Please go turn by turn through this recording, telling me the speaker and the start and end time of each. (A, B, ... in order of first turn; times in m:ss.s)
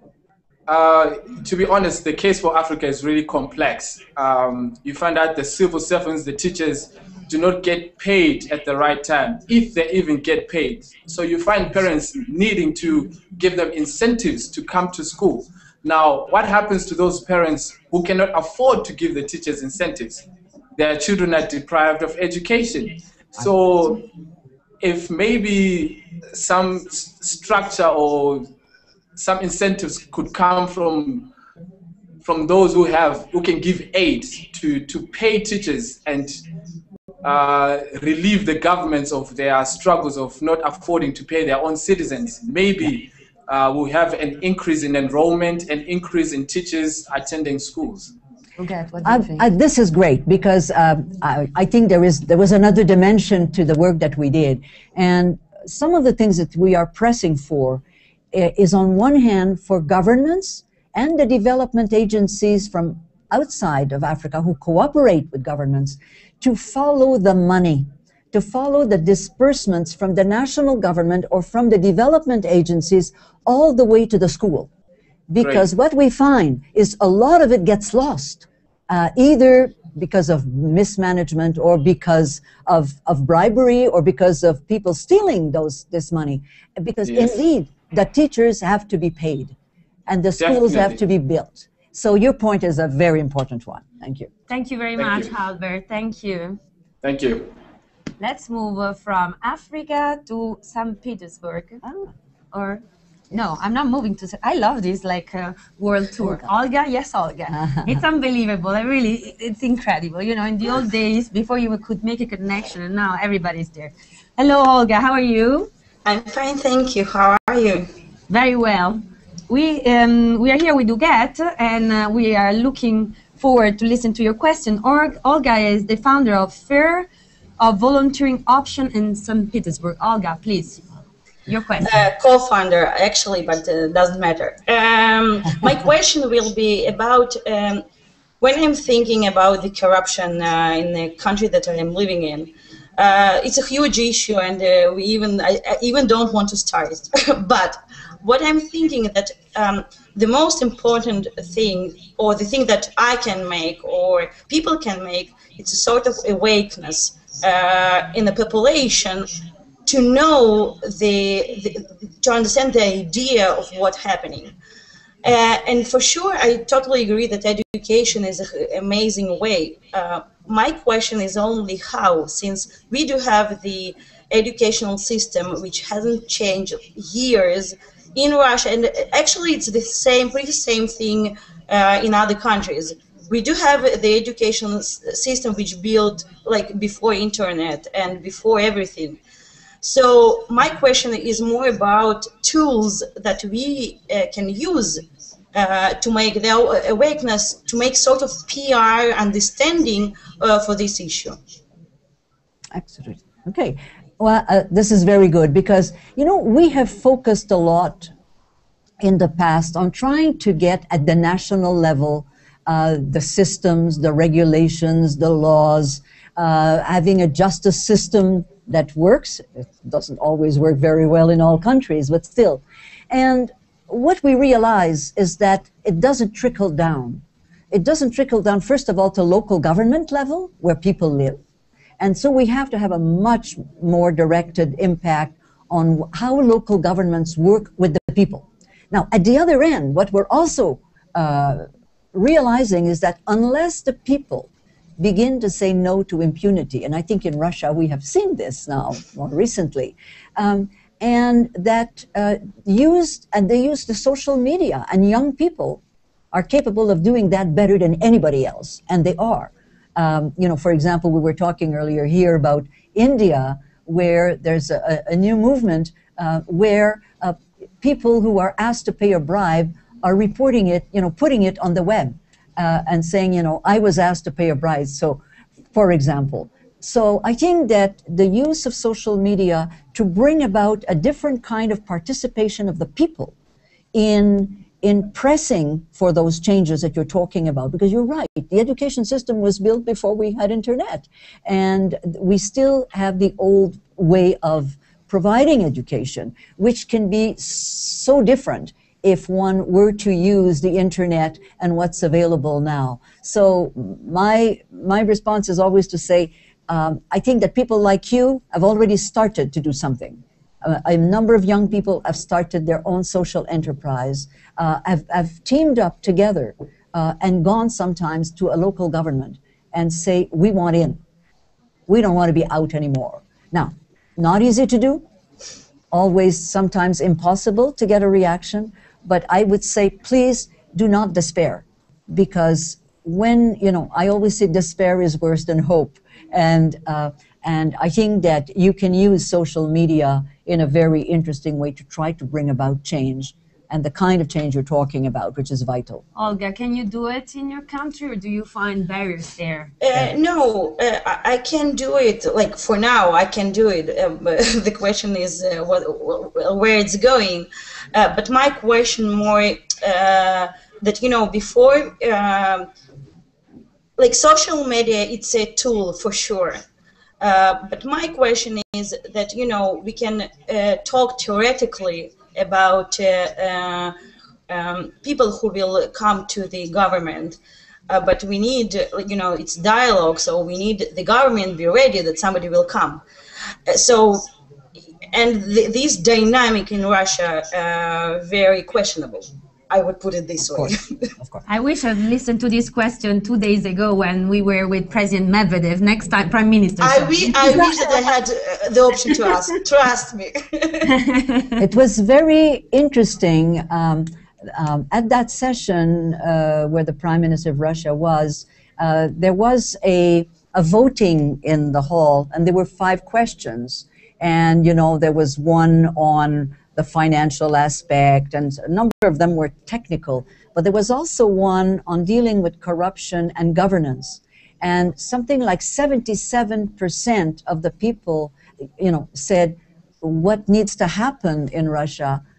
0:00.7-0:20.2 A
0:20.8-0:24.0 A
0:24.8-0:28.5 A
0:29.2-0:31.3 A
0:32.2-0:36.4 A
0:37.2-0:48.1 A
0:48.6-0:49.5 B
0:49.0-1:14.7 C
1:15.3-1:29.5 C
1:27.0-1:27.3 A
1:30.1-1:34.3 C
1:30.4-1:31.0 A
1:34.5-1:36.6 B
1:35.0-1:35.3 A
1:37.0-1:37.5 A
1:38.2-1:41.8 B
1:41.8-1:42.1 C
1:42.5-1:55.7 B
1:47.5-1:48.0 C
1:56.0-1:57.9 D
1:58.3-2:07.1 B
2:07.6-2:10.8 B
2:11.5-2:12.0 B
2:11.8-2:17.8 D
2:18.4-2:39.3 D
2:39.8-2:44.5 D
2:45.2-3:09.2 D
3:09.8-3:15.0 D
3:15.5-3:21.4 D
3:22.7-3:28.1 C
3:29.0-3:51.4 C
3:52.0-4:35.2 C
4:35.7-4:43.3 C
4:43.9-5:21.0 C
5:21.9-5:25.0 C
5:25.9-5:46.0 C
5:46.1-5:49.7 B
5:49.8-6:02.7 D
6:04.0-6:06.6 D
6:07.2-6:13.9 D
6:14.5-6:17.4 D
6:17.9-6:23.0 D
6:23.7-6:24.3 D
6:25.1-6:31.1 D
6:30.5-6:31.4 C
6:31.4-6:37.3 B
6:36.8-6:40.9 D
6:41.2-6:41.5 B
6:41.6-7:12.2 C